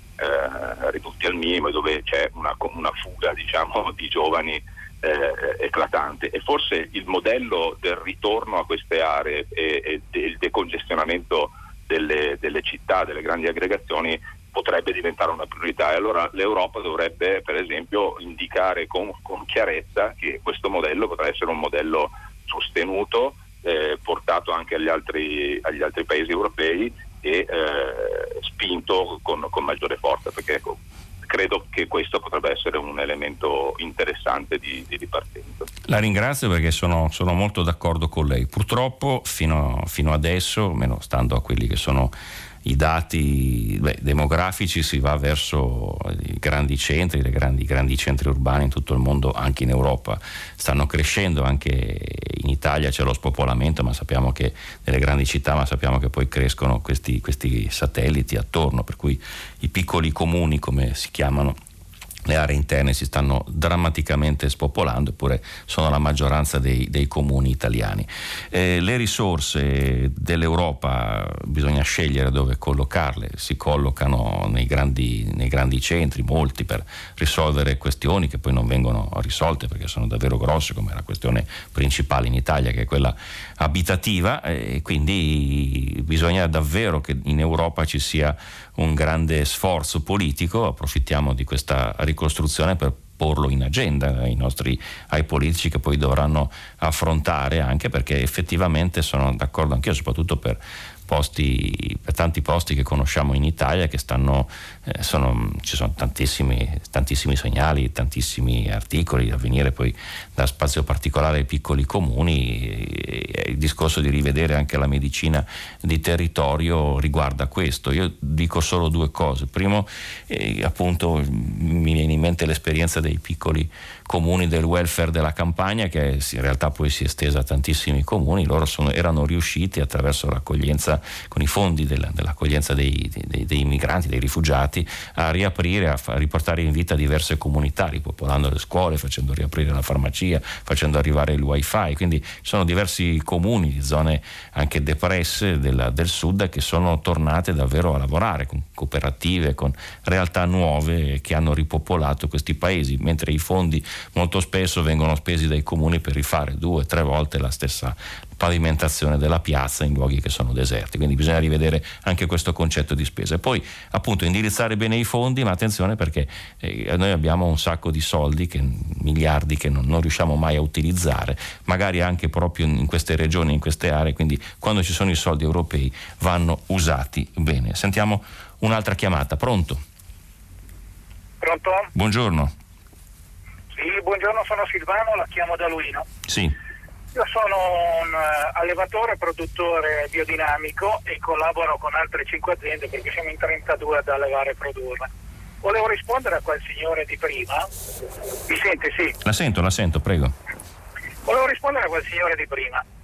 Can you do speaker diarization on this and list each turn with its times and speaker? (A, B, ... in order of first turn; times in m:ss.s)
0:00.2-0:35.7 A
0:35.9-1:01.6 B
1:02.3-2:59.8 B
3:01.4-3:01.9 C
3:01.9-3:02.5 B
3:03.7-3:06.0 C
3:06.3-3:06.6 B
3:07.2-3:15.1 C
3:15.6-3:17.7 C
3:18.5-3:19.2 C
3:19.2-3:20.4 B
3:21.3-3:22.8 C